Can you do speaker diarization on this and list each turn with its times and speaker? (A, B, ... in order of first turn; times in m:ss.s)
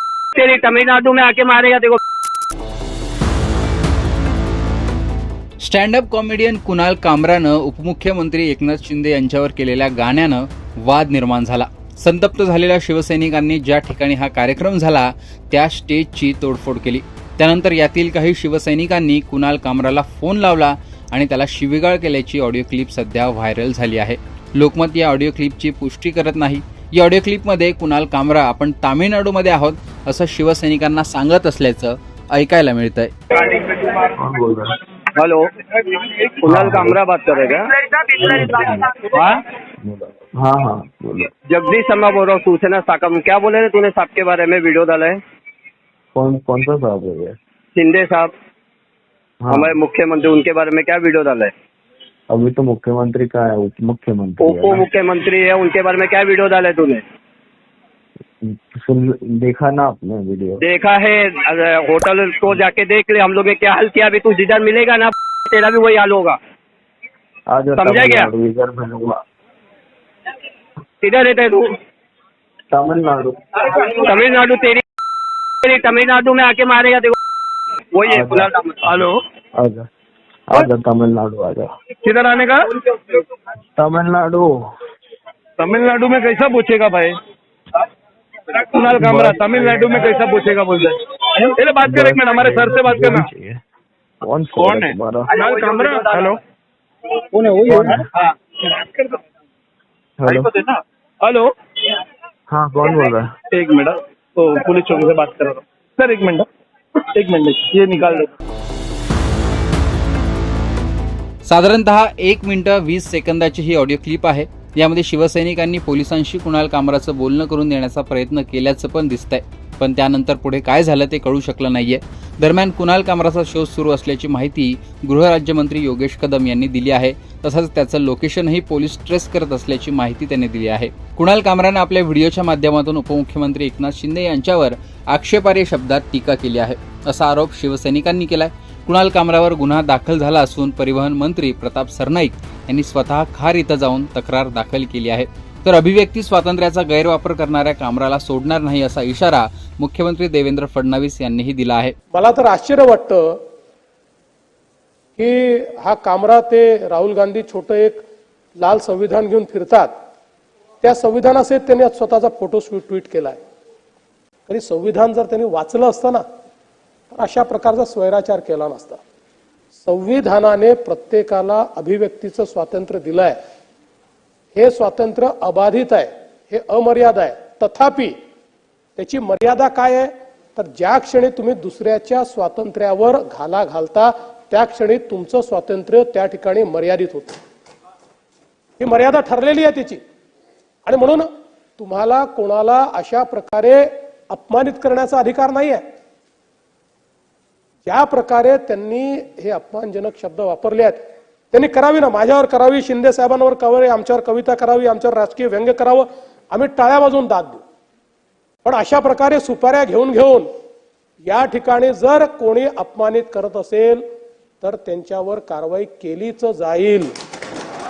0:00.3-0:02.0 A
0:05.6-0:33.1 B
0:34.1-0:34.7 C
0:35.1-0:35.5 A
0:36.0-0:37.8 A
0:36.4-0:37.0 C
0:38.2-0:38.9 C
0:38.9-0:39.4 A
0:39.8-0:41.3 C
0:41.5-0:45.2 A
0:46.1-0:47.4 C
0:47.7-0:48.3 A
0:49.4-0:49.8 C
0:49.5-0:51.5 A
0:52.3-0:54.8 C
0:54.4-0:57.0 A
0:58.4-1:00.6 C
1:00.6-1:06.4 A
1:07.5-1:09.2 C
1:07.8-1:08.3 A
1:11.0-1:11.7 A
1:12.7-1:13.4 C
1:13.7-1:14.8 A
1:15.6-1:17.2 A
1:17.9-1:19.0 A
1:18.1-1:19.9 C
1:20.5-1:21.7 C
1:22.0-1:22.6 D
1:23.8-1:24.7 C
1:25.6-1:27.1 D
1:28.5-1:33.3 D
1:29.0-1:29.6 C
1:31.8-1:33.6 C
1:34.2-1:35.3 C
1:34.6-1:36.4 D
1:35.4-1:36.3 A
1:37.4-1:37.7 A
1:37.6-1:38.1 C
1:38.7-1:39.1 D
1:40.2-1:40.5 C
1:40.3-1:41.5 D
1:42.5-1:43.3 C
1:43.5-1:46.5 D
1:47.1-1:48.3 D
1:51.4-2:31.9 B
2:32.1-2:33.4 E
2:35.2-2:38.0 E
2:38.6-2:39.9 E
2:40.8-2:43.4 E
2:44.5-2:46.2 E
2:47.1-2:49.0 E
2:49.8-2:53.4 E
2:54.6-2:58.1 E
2:59.0-3:07.4 E
3:08.8-3:10.0 E
3:10.8-3:15.8 E
3:17.8-3:21.0 E
3:21.5-3:27.6 E
3:28.6-3:30.5 E
3:31.2-3:34.0 E
3:34.6-3:37.1 E